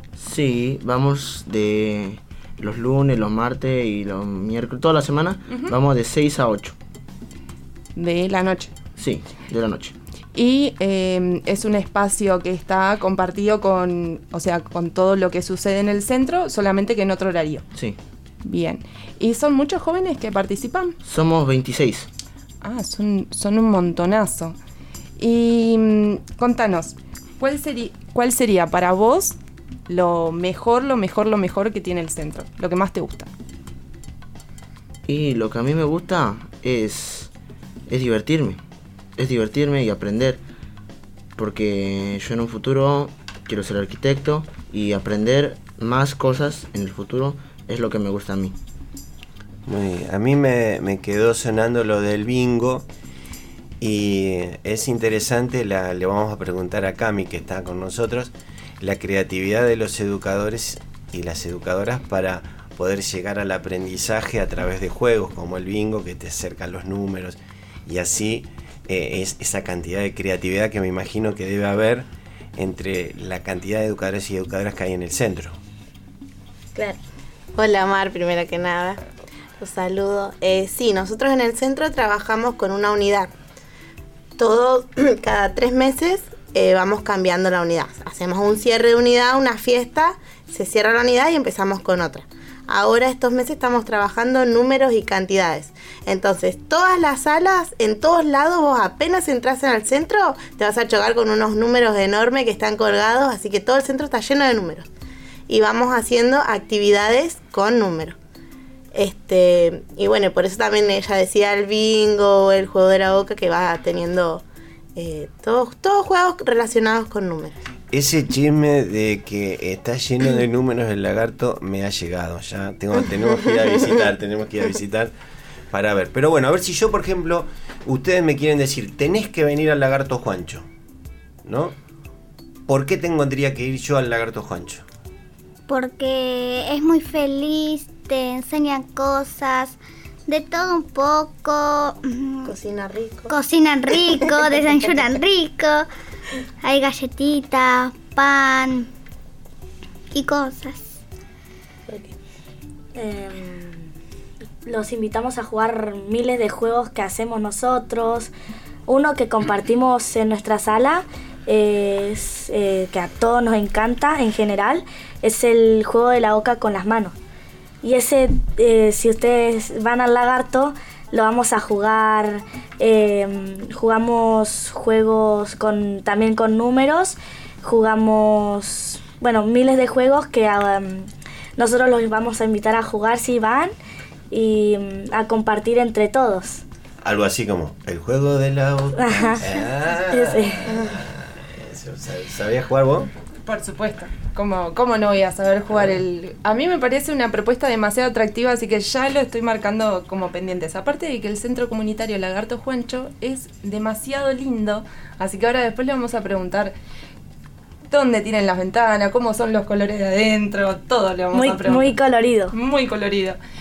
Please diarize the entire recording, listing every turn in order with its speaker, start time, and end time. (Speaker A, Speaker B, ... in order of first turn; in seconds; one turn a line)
Speaker A: 0.2-6.7
Speaker B: 8.0-8.7
Speaker A: 9.0-9.9
Speaker B: 10.3-17.6
Speaker B: 18.4-20.9
Speaker A: 21.0-22.1
Speaker B: 22.6-24.6
Speaker B: 25.2-29.4
Speaker B: 29.9-33.3
Speaker A: 35.0-37.3
Speaker A: 37.9-38.6
Speaker A: 39.2-40.4
Speaker A: 41.4-48.5
Speaker C: 49.6-52.9
Speaker C: 53.8-75.5
Speaker D: 77.5-79.0
Speaker D: 79.6-83.3
Speaker D: 84.4-104.9
Speaker D: 105.5-108.2
Speaker D: 108.9-114.4
Speaker D: 114.9-117.5
Speaker C: 117.9-125.1
Speaker D: 123.3-124.0
Speaker C: 125.7-130.7
Speaker C: 131.4-131.7
Speaker C: 132.7-134.8
Speaker E: 135.7-142.5
Speaker D: 142.4-143.3
Speaker E: 143.3-145.8
Speaker D: 144.0-145.1
Speaker E: 146.6-148.9
Speaker E: 150.1-151.0
Speaker F: 152.9-153.9
Speaker F: 154.6-158.3
Speaker F: 158.9-167.2
Speaker F: 167.8-183.7
Speaker F: 184.3-186.6
Speaker C: 187.0-193.1
Speaker F: 189.0-189.4
Speaker F: 190.1-190.7
Speaker B: 193.4-206.7
Speaker B: 207.9-211.9
Speaker F: 211.3-212.5
Speaker B: 212.5-213.4